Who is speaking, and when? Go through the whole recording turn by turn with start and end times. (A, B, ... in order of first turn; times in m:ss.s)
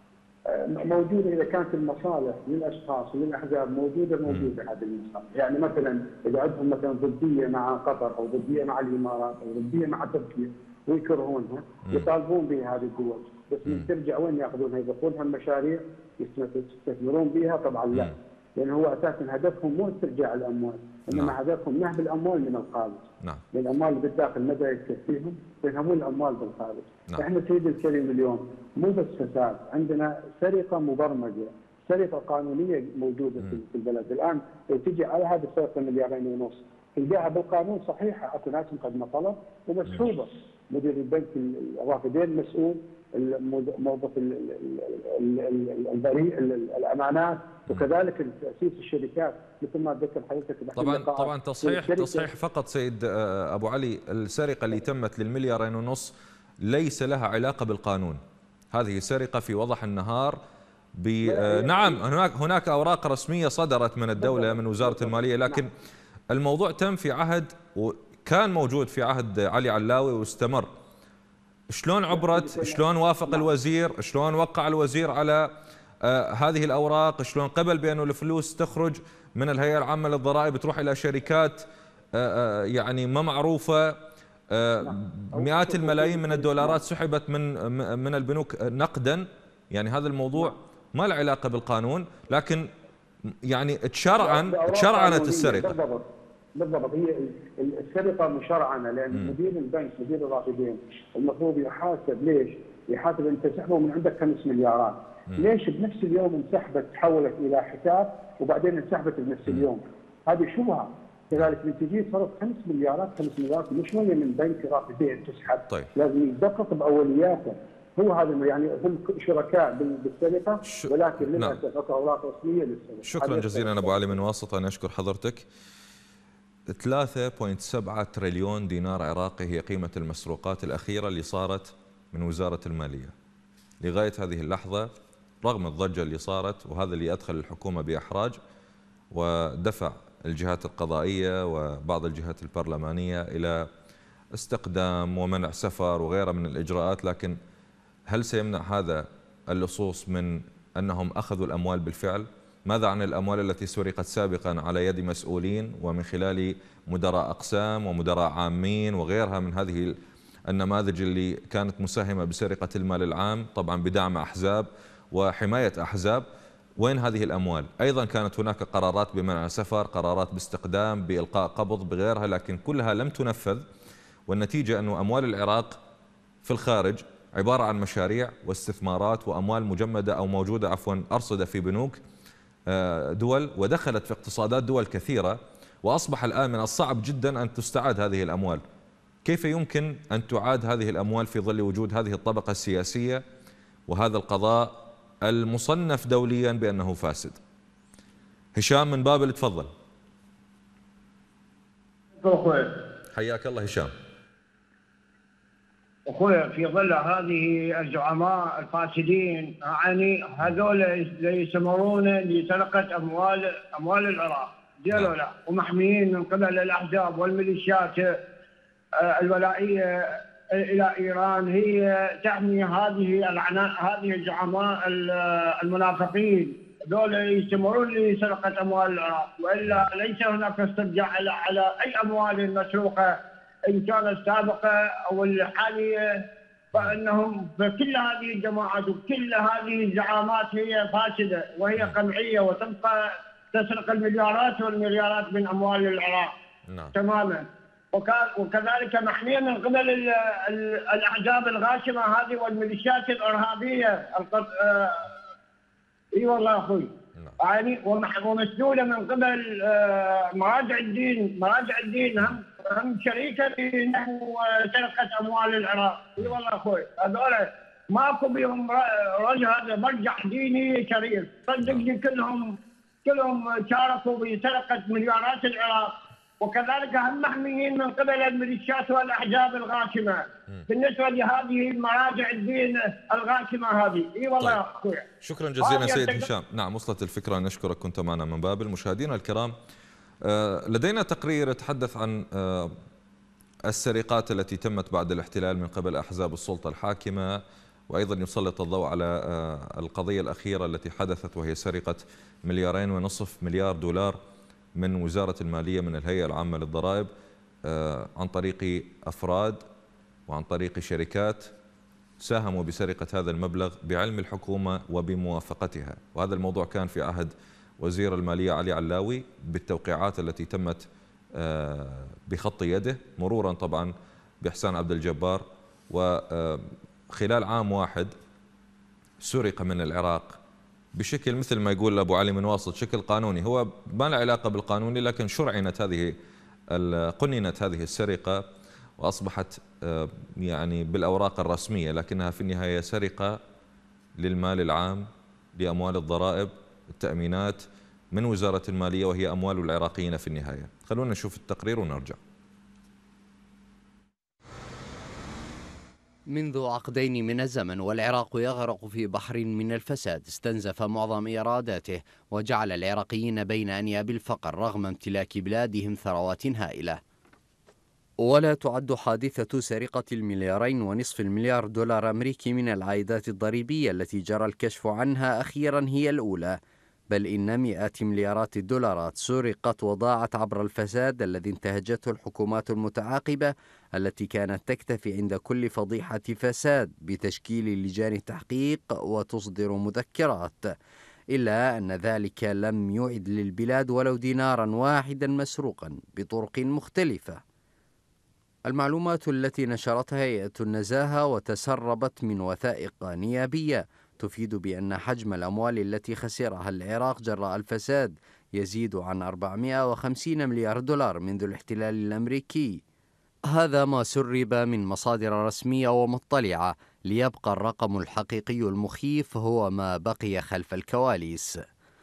0:00.5-0:52.3 A
0:21.1-0:21.4 B
0:50.8-0:56.1 B
0:56.6-0:58.2 B
0:58.7-1:00.4 B
1:01.0-1:05.7 B
1:01.2-1:02.0 A
1:04.2-1:05.7 A
1:06.3-1:10.7 B
1:11.7-1:15.5 B
1:12.1-1:13.5 A
1:16.0-1:21.6 B
1:22.2-1:24.0 B
1:24.5-1:32.6 B
1:24.8-1:26.8 A
1:33.5-1:35.8 B
1:34.2-2:04.2 A
2:00.6-2:01.6 B
2:03.0-2:05.4 B
2:06.7-2:13.1 B
2:13.8-2:14.9 B
2:15.4-2:18.4 B
2:19.1-2:23.6 B
2:24.4-2:27.4 B
2:28.1-2:40.0 B
2:40.5-2:46.2 B
2:46.8-2:53.6 B
2:54.3-2:55.8 B
2:56.4-3:02.0 B
3:02.7-3:08.6 B
3:09.2-3:13.2 B
3:13.9-3:17.4 B
3:18.6-3:19.7 B
3:22.2-3:22.7 C
3:23.1-3:23.9 B
3:26.1-3:38.1 C
3:39.0-3:53.1 C
3:53.7-3:55.9 C
3:56.7-4:03.0 C
4:03.5-4:06.3 C
4:06.7-4:06.9 B
4:06.9-4:15.1 C
4:16.1-4:16.9 C
4:17.4-4:32.5 C
4:33.0-4:45.0 C
4:45.2-4:49.5 B
4:45.6-4:46.2 C
4:50.2-4:52.8 B
4:53.7-5:04.2 B
5:04.8-5:07.1 B
5:07.6-5:09.6 B
5:10.3-5:11.5 B
5:12.2-5:20.8 B
5:21.4-5:28.1 B
5:29.2-5:30.4 B
5:30.9-5:36.1 B
5:36.7-5:38.4 B
5:39.0-5:43.4 B
5:44.2-5:52.2 B
5:56.3-6:07.0 D
6:08.2-6:16.6 D
6:17.1-6:30.6 D
6:31.3-6:37.4 D
6:38.7-6:52.8 D
6:53.5-7:01.6 D